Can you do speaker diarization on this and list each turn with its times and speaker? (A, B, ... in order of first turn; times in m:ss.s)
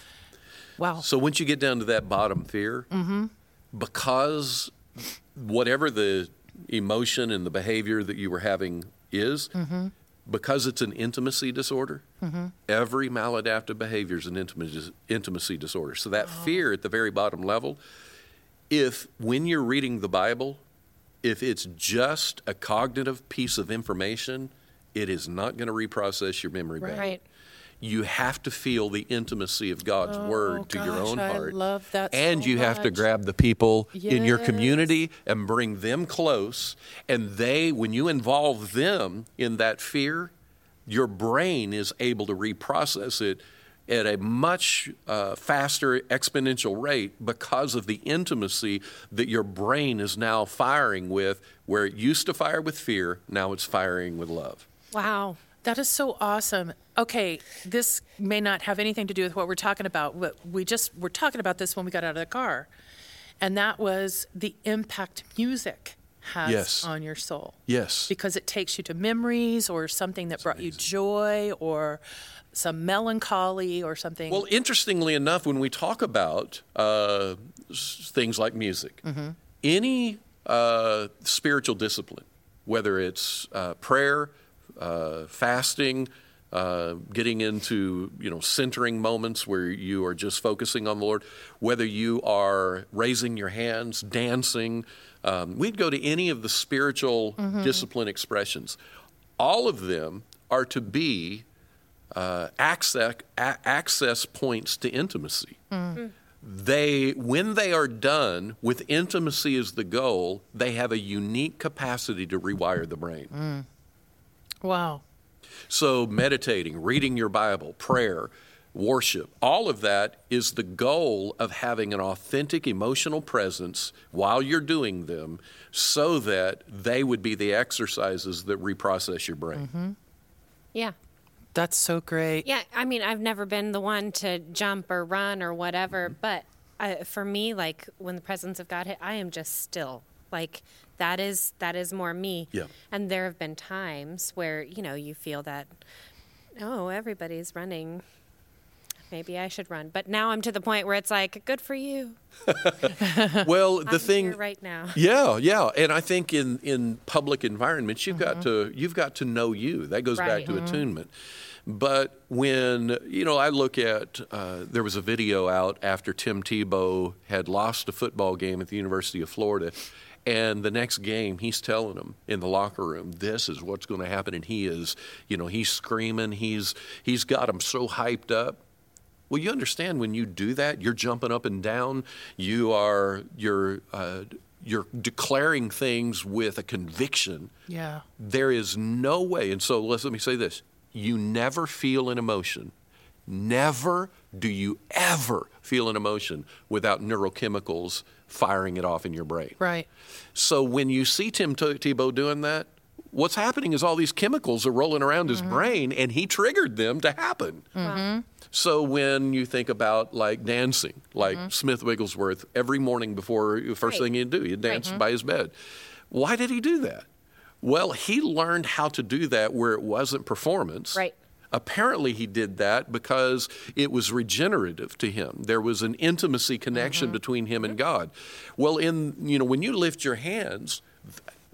0:00.8-0:01.1 A
0:01.0-0:02.9 B
0:02.9-0:03.3 A
0:03.7-0:09.6 B
0:09.6-0:09.9 A
0:10.3-0:12.0 B
0:12.2-0:12.6 A
0:12.7-0:17.8 B
0:18.7-0:20.6 B
0:21.2-0:27.1 B
0:26.8-0:27.1 A
0:27.8-0:31.6 B
0:30.0-0:33.1 A
0:32.1-0:40.3 B
0:33.9-0:34.9 A
0:40.9-0:54.7 B
0:54.9-0:55.4 C
0:55.6-1:02.7 A
1:03.4-1:12.0 A
1:06.4-1:06.9 B
1:07.7-1:08.1 B
1:10.5-1:10.8 B
1:12.5-1:14.4 A
1:14.3-1:19.0 B
1:19.0-1:19.4 A
1:19.6-1:38.8 B
1:37.4-1:37.8 A
1:39.4-1:41.5 B
1:42.1-1:45.6 B
1:45.7-1:46.0 A
1:46.4-1:53.3 B
1:53.3-1:53.7 A
1:54.6-1:55.0 A
1:55.7-2:09.7 B
2:09.6-2:10.0 A
2:11.6-2:12.4 A
2:12.4-2:25.8 C
2:26.6-2:28.0 C
2:29.1-2:32.2 C
2:32.5-2:34.4 B
2:33.0-2:33.4 A
2:33.9-2:35.0 C
2:34.9-2:41.1 B
2:38.2-2:38.4 A
2:40.2-2:40.6 C
2:40.5-2:40.8 A
2:41.7-2:58.6 B
2:59.3-3:07.5 B
3:07.7-3:08.1 A
3:08.2-3:12.7 B
3:13.3-3:19.6 B
3:19.6-3:19.9 A
3:20.4-3:27.7 B
3:27.8-3:28.2 A
3:28.5-3:35.5 B
3:36.1-3:37.1 B
3:37.6-3:51.1 B